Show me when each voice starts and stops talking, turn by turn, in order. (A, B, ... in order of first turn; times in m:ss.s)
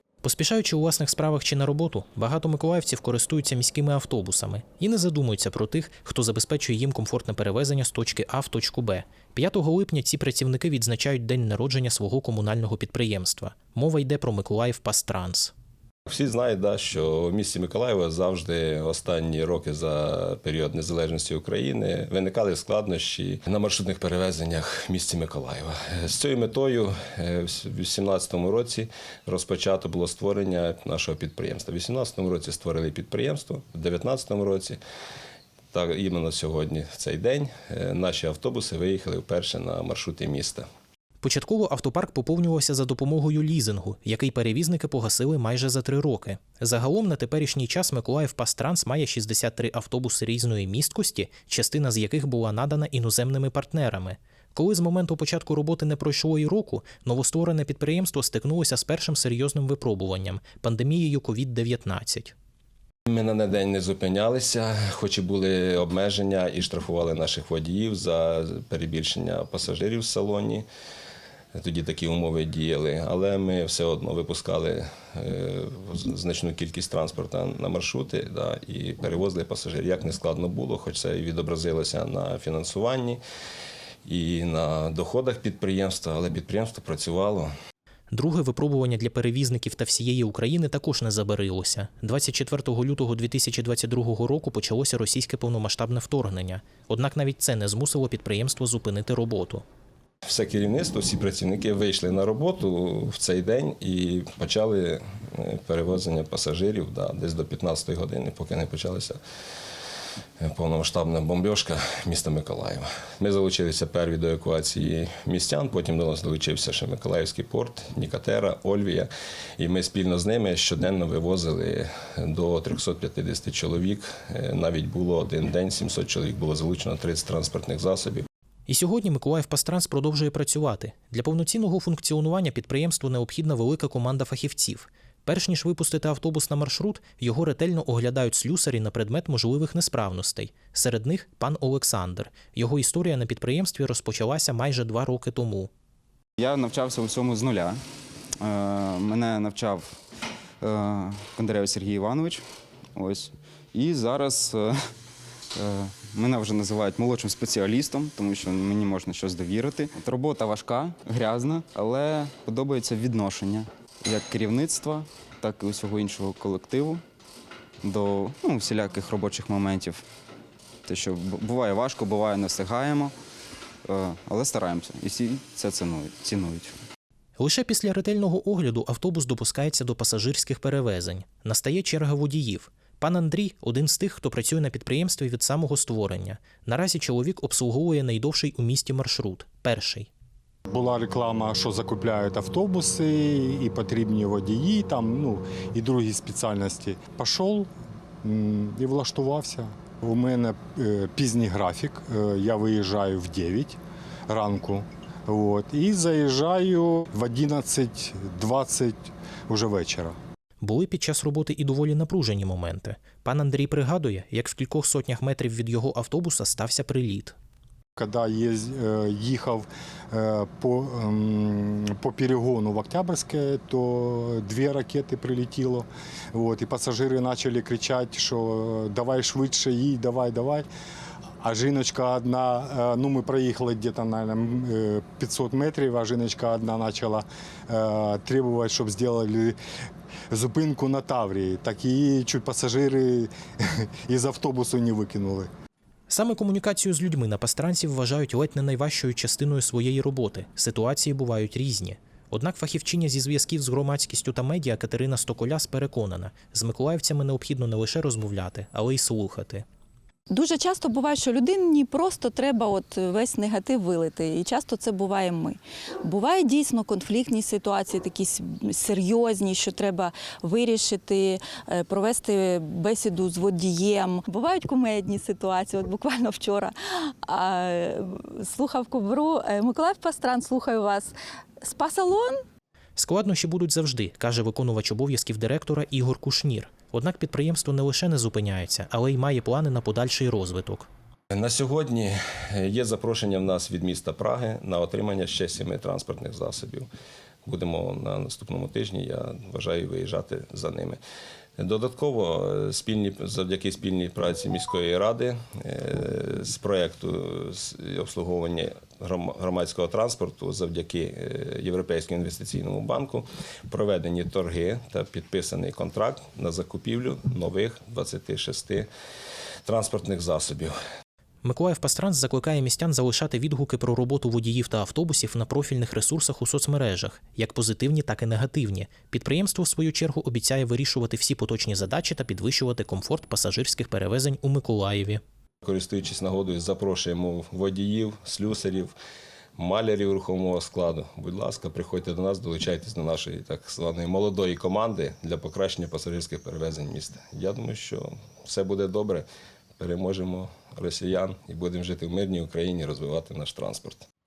0:00.2-0:15.5 A
0:16.0-0:34.8 B
0:35.7-0:40.6 B
0:41.2-1:02.3 A
1:03.1-1:10.6 B
1:11.6-1:23.2 B
1:24.0-1:27.5 B
1:28.1-1:39.6 A
1:40.2-1:49.2 B
1:50.4-2:08.3 B
2:08.7-2:25.7 A
2:26.4-2:27.8 C
2:28.4-2:30.0 C
2:30.6-2:32.4 C
2:32.9-2:34.7 C
2:35.6-2:47.0 C
2:47.8-2:50.0 C
2:50.8-2:53.1 C
2:53.8-2:56.7 C
2:57.4-3:10.1 A
3:10.7-3:17.7 D
3:18.2-3:23.8 D
3:24.3-3:30.2 D
3:30.6-3:37.4 A
3:38.0-3:50.7 D
3:51.4-3:59.6 D
4:00.3-4:05.5 D
4:06.1-4:19.6 A
4:20.3-4:42.4 E
4:43.0-4:50.9 A
4:51.3-4:56.9 B
4:57.4-5:01.0 B
5:01.6-5:18.9 B
5:19.6-5:20.7 B
5:21.4-5:35.2 A
5:35.6-5:38.9 B
5:39.6-5:49.2 B
5:49.8-5:54.0 B